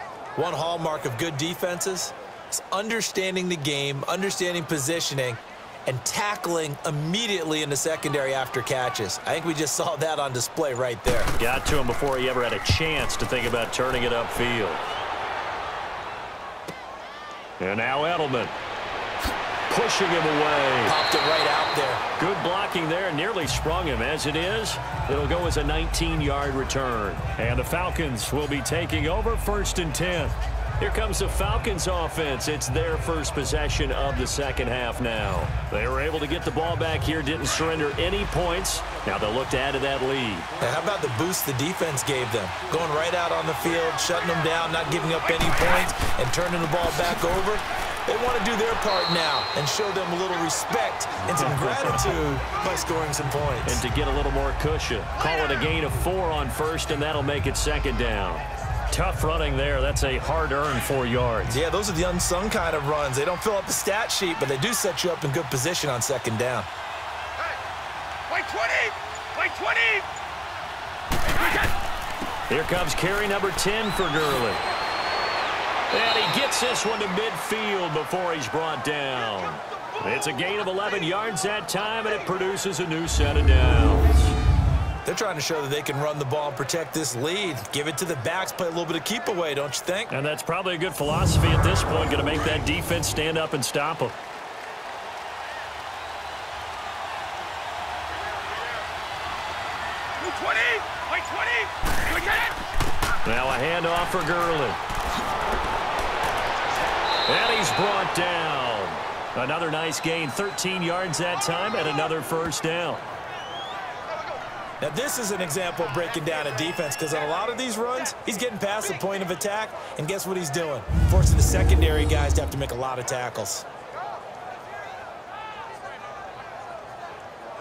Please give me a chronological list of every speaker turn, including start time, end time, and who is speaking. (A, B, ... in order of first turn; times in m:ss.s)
0:00.4-0:11.3 A
0:11.4-0:14.8 B
0:17.6-0:18.5 B
0:19.7-0:21.0 B
0:20.8-0:22.0 A
0:22.2-0:40.5 B
0:40.6-0:53.8 A
0:45.4-0:45.7 C
0:51.3-0:52.2 B
0:53.6-1:01.6 B
1:01.4-1:06.7 A
1:08.3-1:10.1 C
1:11.3-1:11.7 C
1:12.5-1:14.6 B
1:15.9-1:24.4 B
1:25.0-1:30.1 A
1:30.1-1:34.2 B
1:40.2-1:42.6 C
1:43.2-1:44.8 B
1:47.3-1:53.0 B
1:54.8-2:03.6 A